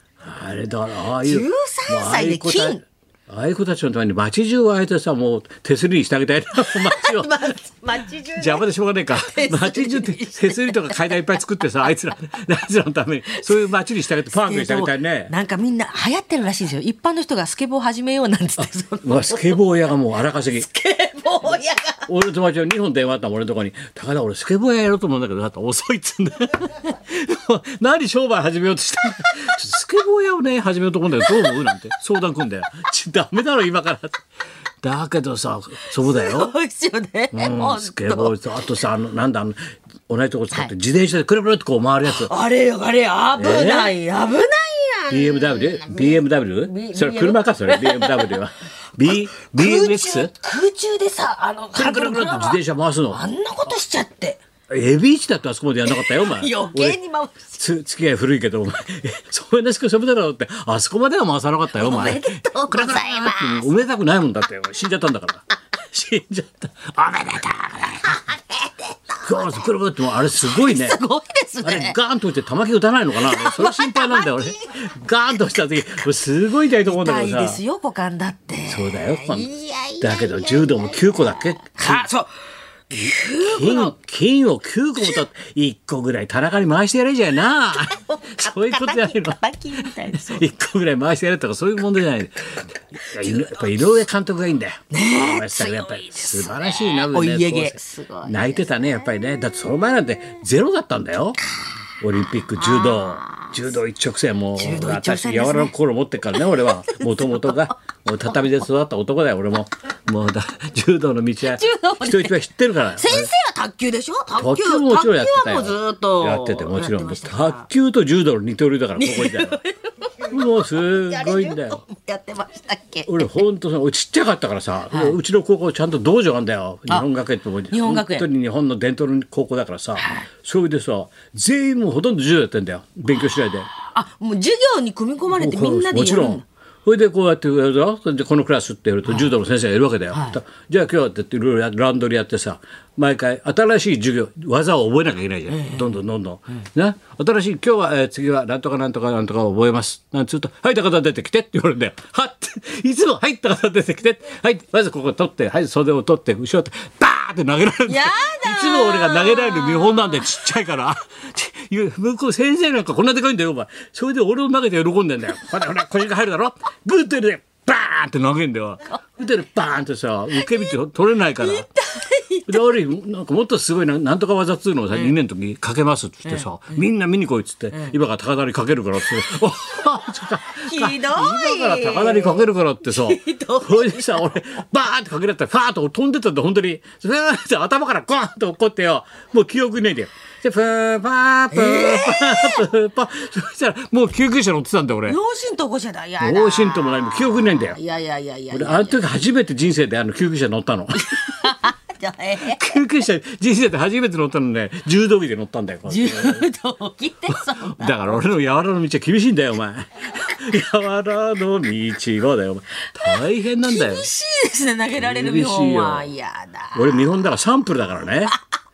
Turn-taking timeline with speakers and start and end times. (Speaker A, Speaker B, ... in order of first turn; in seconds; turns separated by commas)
Speaker A: 0.2-7.6, Speaker B: 1.2-2.8, Speaker B: 6.6-11.4, Speaker A: 8.3-15.3, Speaker B: 14.3-19.6, Speaker A: 18.6-20.7, Speaker B: 20.5-22.1, Speaker A: 22.1-34.2, Speaker A: 34.8-36.5, Speaker B: 36.0-38.4, Speaker A: 37.3-42.3, Speaker B: 42.1-48.4, Speaker A: 43.3-43.9, Speaker A: 45.1-50.3, Speaker B: 49.0-54.4, Speaker A: 51.7-53.2, Speaker A: 54.7-57.0, Speaker B: 55.8-57.6, Speaker A: 57.5-68.1, Speaker B: 61.8-63.6, Speaker B: 67.9-69.5, Speaker A: 69.2-71.0, Speaker B: 70.4-72.0, Speaker A: 71.6-77.6, Speaker B: 73.2-74.8, Speaker B: 76.8-82.3, Speaker A: 78.7-82.1, Speaker B: 82.9-83.9, Speaker A: 83.0-101.4, Speaker B: 87.8-90.5, Speaker B: 93.2-93.5, Speaker B: 94.9-99.0, Speaker A: 102.0-113.3, Speaker B: 102.5-103.7, Speaker B: 104.5-105.7, Speaker B: 106.3-107.7, Speaker B: 111.4-117.7, Speaker A: 114.4-119.6, Speaker B: 119.0-120.1, Speaker A: 120.2-121.8, Speaker B: 120.8-123.4, Speaker A: 123.0-133.7, Speaker B: 124.9-125.2, Speaker B: 127.7-128.3, Speaker B: 130.0-130.3, Speaker B: 133.9-136.4, Speaker A: 135.3-171.7, Speaker B: 140.1-140.4, Speaker B: 145.5-146.0, Speaker B: 157.8-160.2, Speaker B: 171.4-172.8, Speaker A: 172.5-195.2, Speaker B: 177.7-178.0, Speaker B: 180.6-184.3, Speaker B: 191.5-192.7, Speaker B: 195.1-199.0, Speaker A: 196.2-197.8, Speaker A: 198.5-201.4, Speaker B: 201.0-202.8, Speaker A: 202.4-206.5, Speaker B: 205.9-208.2, Speaker A: 207.3-214.1, Speaker B: 213.0-217.2, Speaker A: 215.0-216.1, Speaker A: 216.7-218.3